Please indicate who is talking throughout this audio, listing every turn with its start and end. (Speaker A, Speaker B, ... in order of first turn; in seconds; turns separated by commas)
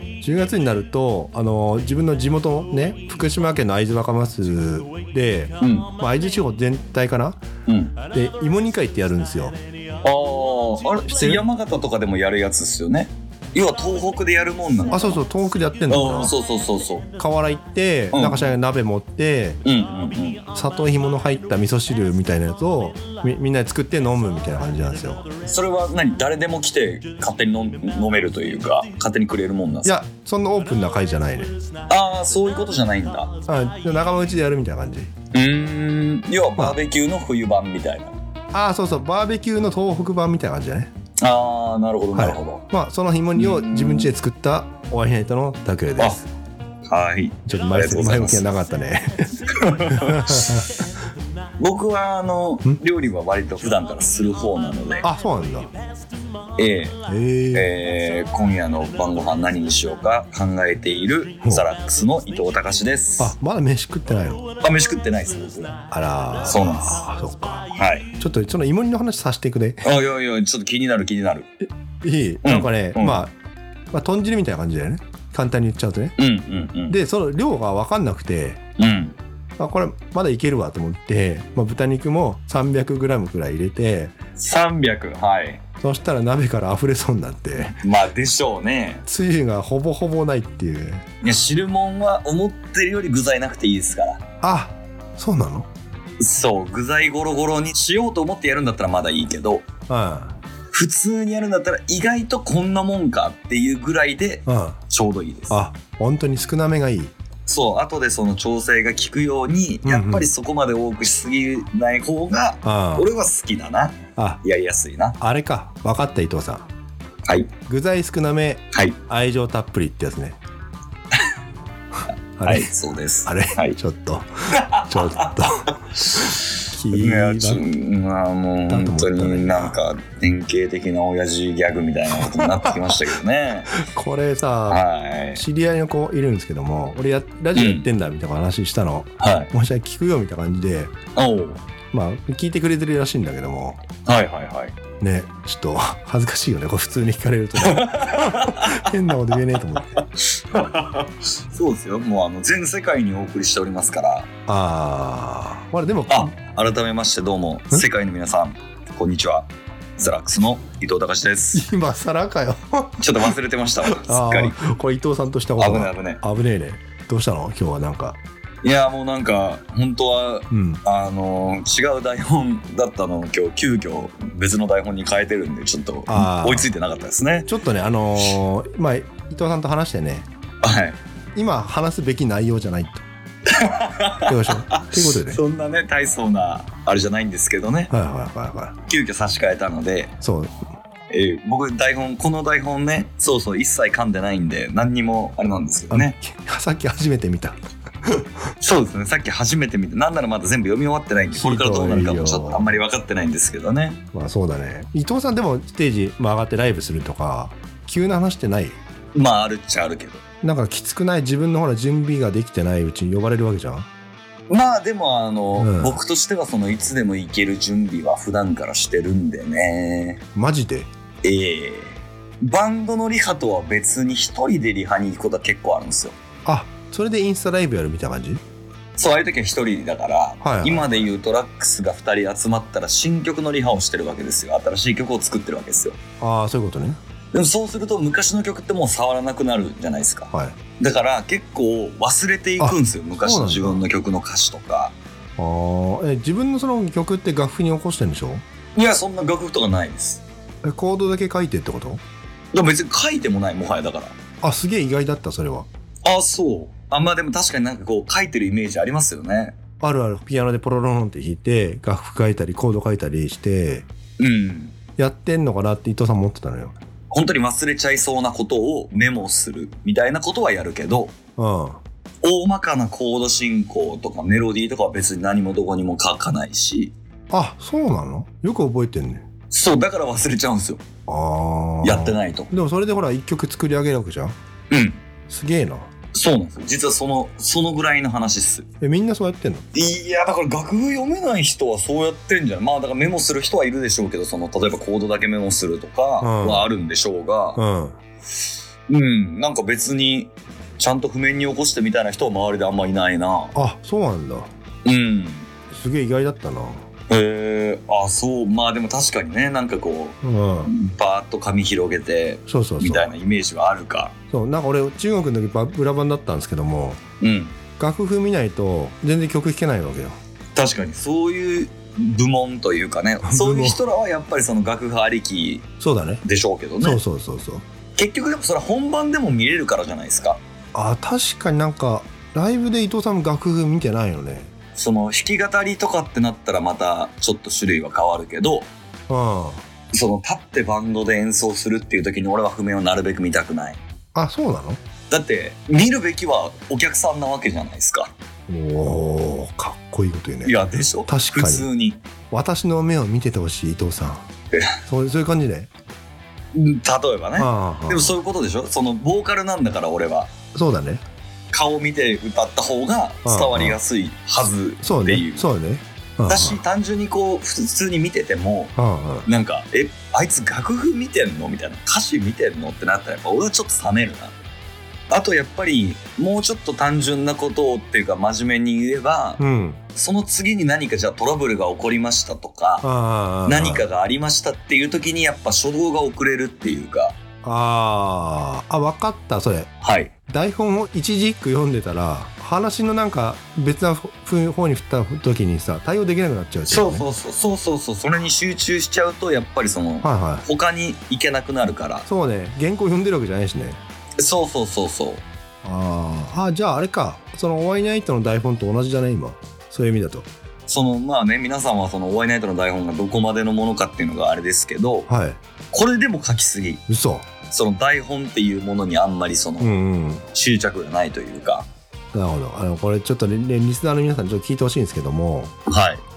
Speaker A: 0.2-7.4, Speaker B: 5.6-5.9, Speaker B: 7.7-8.0, Speaker A: 8.1-9.6, Speaker B: 10.0-15.2, Speaker A: 11.1-11.4, Speaker A: 14.9-16.3, Speaker B: 15.9-17.1, Speaker A: 17.2-19.6, Speaker B: 18.1-18.5, Speaker B: 19.6-20.4, Speaker A: 20.6-25.3, Speaker B: 25.4-30.0, Speaker A: 29.9-31.5, Speaker B: 31.9-33.3, Speaker A: 33.5-35.1, Speaker B: 35.3-38.1, Speaker A: 38.5-40.9, Speaker B: 41.2-42.6, Speaker A: 42.1-46.3, Speaker B: 43.4-44.1, Speaker B: 46.9-48.5, Speaker A: 47.5-50.7, Speaker B: 49.5-50.6, Speaker B: 51.6-55.1, Speaker A: 55.0-55.7, Speaker B: 56.6-57.0, Speaker A: 57.1-57.7, Speaker B: 57.5-63.4, Speaker A: 63.2-64.4, Speaker B: 64.6-65.8, Speaker A: 65.9-67.7, Speaker B: 66.4-67.0, Speaker B: 67.7-68.1, Speaker A: 68.2-69.8, Speaker B: 69.8-71.5, Speaker A: 72.0-73.3, Speaker B: 72.4-73.2, Speaker A: 73.9-76.2, Speaker B: 76.2-77.0, Speaker A: 76.9-78.6, Speaker B: 78.8-79.2, Speaker A: 79.6-84.2, Speaker B: 84.4-85.6, Speaker A: 85.8-87.8, Speaker B: 87.8-89.0, Speaker A: 89.1-91.1, Speaker B: 91.2-94.2, Speaker A: 94.4-95.7, Speaker B: 96.2-99.7, Speaker A: 99.9-100.4, Speaker B: 100.7-105.6, Speaker A: 104.5-104.8, Speaker A: 105.5-107.1, Speaker B: 107.5-115.2, Speaker A: 109.8-110.3, Speaker A: 112.6-113.1, Speaker A: 115.2-116.7, Speaker A: 117.7-120.4, Speaker B: 118.7-119.0, Speaker A: 122.4-122.7, Speaker B: 122.4-123.8, Speaker A: 123.3-126.2, Speaker B: 124.5-133.7, Speaker A: 126.7-127.6, Speaker A: 128.7-129.8, Speaker A: 132.2-133.0, Speaker A: 133.8-140.9, Speaker B: 134.7-135.4, Speaker B: 137.6-137.9, Speaker B: 139.2-139.5, Speaker B: 141.2-141.7, Speaker A: 141.9-143.8, Speaker B: 144.1-144.8, Speaker A: 145.0-149.9, Speaker B: 147.6-148.9, Speaker B: 149.9-154.3, Speaker A: 154.5-156.3, Speaker B: 156.1-161.6, Speaker A: 161.5-168.2, Speaker B: 163.0-164.6, Speaker B: 165.6-166.2, Speaker B: 168.6-177.5, Speaker A: 170.5-170.8, Speaker A: 176.1-176.7, Speaker A: 177.5-180.3, Speaker B: 180.6-181.0, Speaker A: 181.3-183.0, Speaker B: 183.5-187.9, Speaker A: 184.2-185.4, Speaker A: 187.9-188.8, Speaker B: 188.8-190.1, Speaker A: 190.2-190.6, Speaker B: 191.1-196.2, Speaker A: 195.9-198.3, Speaker B: 198.6-204.0, Speaker A: 201.3-202.8, Speaker A: 204.1-208.8, Speaker B: 209.2-210.2, Speaker A: 210.4-213.9, Speaker B: 214.5-220.2, Speaker A: 215.6-216.0, Speaker A: 220.3-220.9, Speaker B: 221.2-226.2, Speaker A: 226.5-228.4, Speaker B: 229.0-236.0, Speaker A: 230.4-231.1, Speaker A: 236.2-237.0, Speaker B: 237.3-245.0, Speaker A: 240.3-240.6, Speaker A: 242.6-243.8, Speaker A: 245.4-248.4, Speaker B: 248.8-250.2, Speaker A: 250.6-252.0, Speaker B: 252.5-254.2, Speaker A: 254.4-255.7, Speaker B: 256.1-259.6, Speaker A: 259.8-263.9, Speaker B: 264.2-264.8, Speaker A: 265.0-266.8, Speaker B: 267.1-271.1, Speaker A: 271.4-271.8, Speaker B: 272.2-276.9, Speaker A: 277.3-279.3, Speaker B: 279.5-280.8, Speaker A: 281.1-284.4, Speaker B: 281.8-282.5, Speaker B: 284.7-285.0, Speaker A: 285.3-285.9, Speaker B: 286.1-288.7, Speaker A: 288.8-289.6, Speaker B: 289.7-297.6, Speaker A: 296.2-296.7, Speaker A: 297.6-298.0, Speaker B: 298.9-303.6, Speaker A: 303.6-304.5, Speaker B: 304.9-305.5, Speaker A: 305.7-306.9, Speaker B: 307.1-314.1, Speaker A: 310.2-310.7, Speaker A: 312.5-313.1, Speaker A: 314.3-317.0, Speaker B: 317.2-317.6, Speaker A: 317.8-320.2, Speaker B: 320.6-325.7, Speaker A: 323.2-323.8, Speaker A: 325.8-326.2, Speaker B: 326.2-327.0, Speaker A: 326.8-327.6, Speaker B: 328.0-330.4, Speaker A: 330.7-334.5, Speaker B: 334.8-338.7, Speaker A: 339.1-339.6, Speaker B: 339.9-343.8, Speaker A: 344.1-344.8, Speaker B: 345.1-348.1, Speaker A: 348.5-351.7, Speaker B: 350.4-352.0, Speaker A: 352.3-354.3, Speaker B: 354.5-354.8, Speaker A: 354.9-355.7, Speaker B: 356.5-360.3, Speaker A: 357.4-358.2, Speaker A: 360.5-361.0, Speaker B: 361.5-365.5, Speaker A: 363.2-363.8, Speaker A: 364.8-366.6, Speaker B: 366.3-368.7, Speaker A: 368.8-369.3, Speaker B: 369.2-374.3, Speaker B: 375.1-379.4, Speaker A: 379.4-379.8, Speaker B: 379.9-382.9, Speaker A: 382.8-383.9, Speaker B: 383.4-387.2, Speaker A: 387.4-389.7, Speaker B: 389.8-390.1, Speaker A: 390.3-397.1, Speaker B: 396.7-402.1, Speaker A: 400.0-400.5, Speaker A: 402.1-403.8, Speaker B: 404.2-405.2, Speaker A: 405.6-410.3, Speaker B: 410.7-415.1, Speaker A: 415.1-415.4, Speaker B: 415.7-416.8, Speaker A: 416.9-417.3, Speaker B: 417.5-419.7, Speaker A: 419.6-420.2, Speaker B: 420.3-421.7, Speaker A: 422.1-425.5, Speaker B: 425.7-426.0